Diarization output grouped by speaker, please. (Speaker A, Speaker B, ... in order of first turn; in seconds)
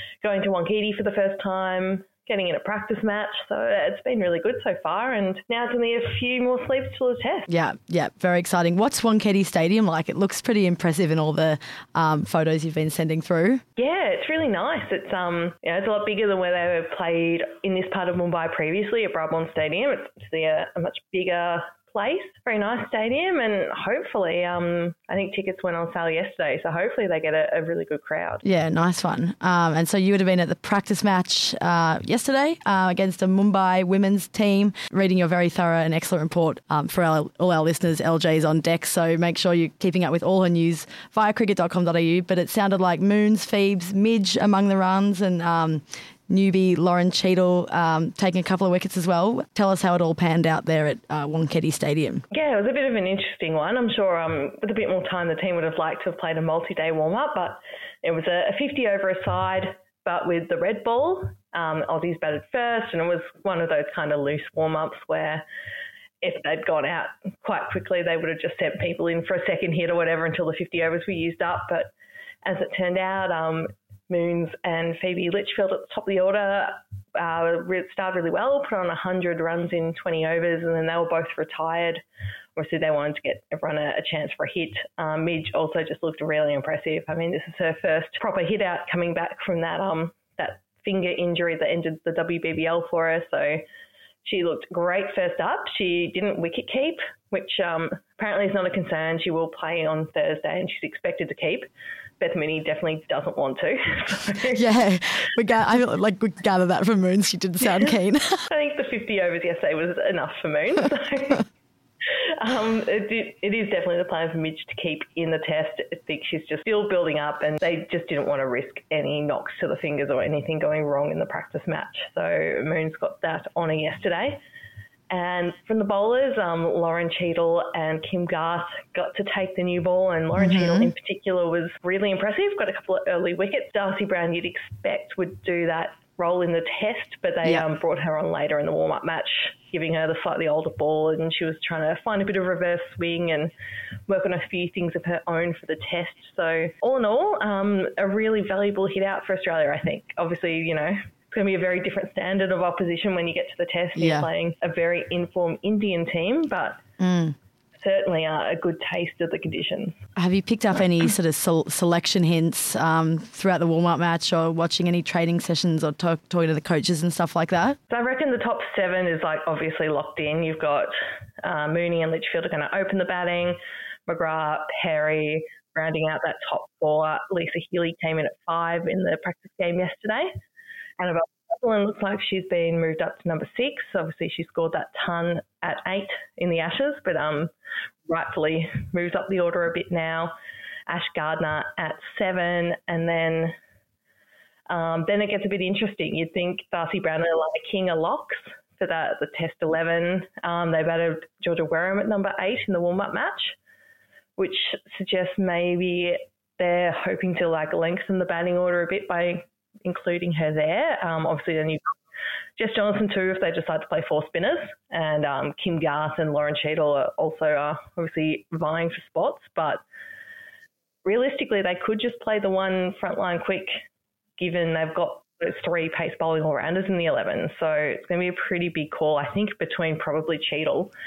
Speaker A: 0.2-7.5, 13.8-28.4, 52.3-65.4, 66.2-71.9, 72.4-82.0, 82.5-93.6, 94.2-104.7, 108.5-111.4, 112.4-124.4, 125.1-143.5, 144.1-156.8, 157.8-160.0, 167.9-170.9, 171.4-173.6, 174.1-180.3, 181.0-187.5, 188.1-190.3, 190.9-193.5, 194.7-203.6, 204.4-211.9, 212.6-219.8, 221.0-223.7, 224.4-230.9
Speaker B: 7.5-13.6, 28.4-52.2, 104.6-108.5, 130.4-130.9, 153.9-154.3, 157.0-157.3, 160.2-167.8